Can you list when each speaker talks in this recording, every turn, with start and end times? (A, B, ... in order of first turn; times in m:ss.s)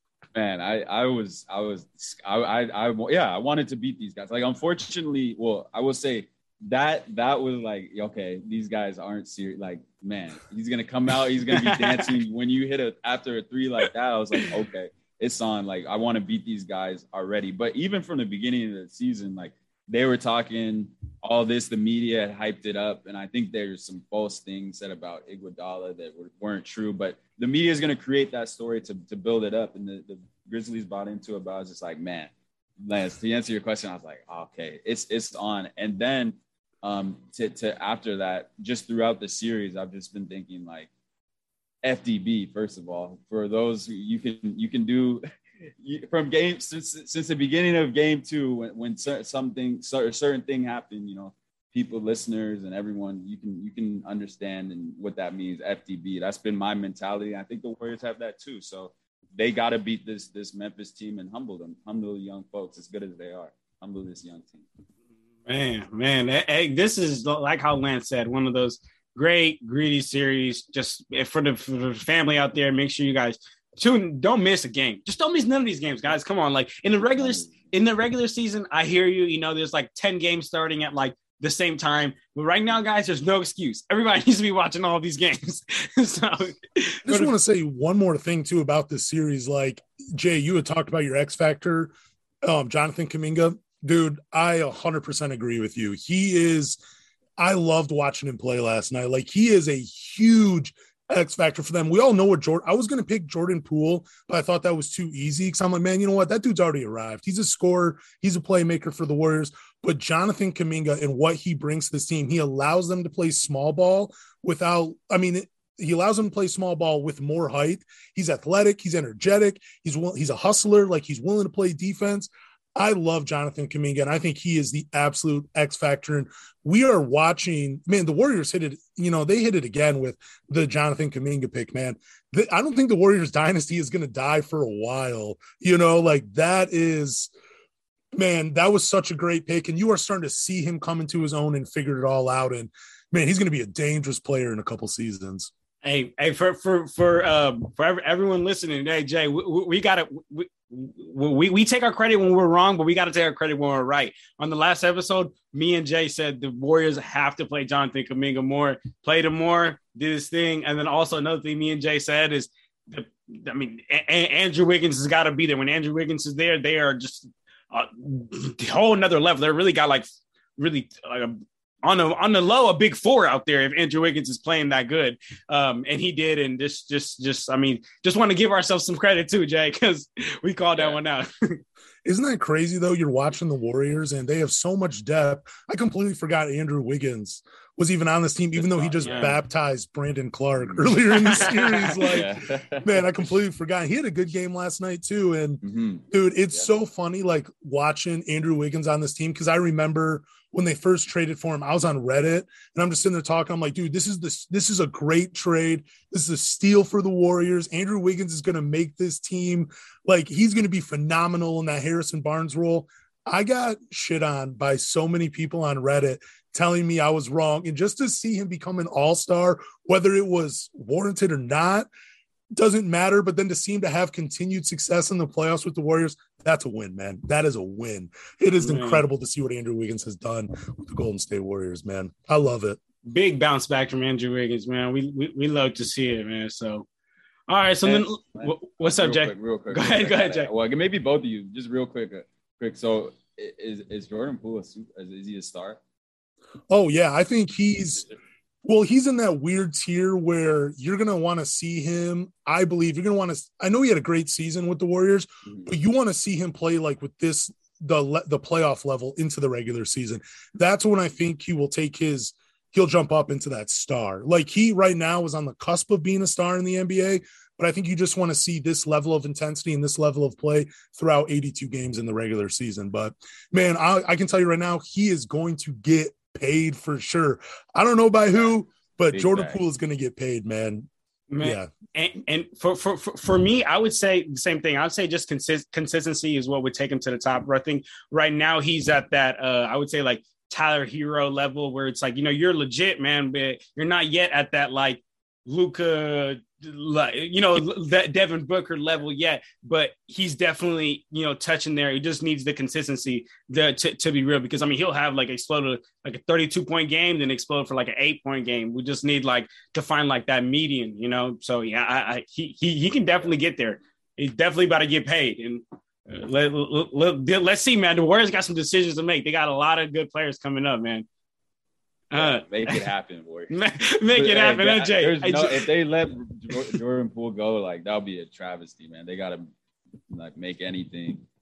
0:00.3-0:40.9 A
0:11.5-0:12.2 B
0:41.8-0:45.2 A
0:45.8-1:04.7 A
1:05.4-1:27.3 B
1:17.2-1:17.7 A
1:27.0-1:31.9 C
1:32.4-1:36.8 C
1:37.4-2:17.3 C
2:18.1-2:25.5 C
2:25.8-3:01.6 B
3:02.0-3:41.9 C
3:08.6-3:09.4 A
3:09.0-3:09.3 B
3:10.6-3:11.5 A
3:11.1-3:12.2 B
3:12.0-3:13.0 A
3:15.6-3:16.7 A
3:42.5-3:52.8 C
3:48.6-3:49.0 B
3:53.0-3:56.9 B
3:57.5-4:00.5 B
3:57.8-4:05.8 A
4:06.7-4:08.0 C
4:08.6-4:40.9 C
4:39.1-4:39.6 A
4:41.3-5:21.1 B
4:41.4-4:41.7 C
5:22.1-5:22.8 B
5:22.1-5:23.6 A
5:23.5-5:25.7 B
5:24.1-5:29.5 A
5:30.1-5:31.3 A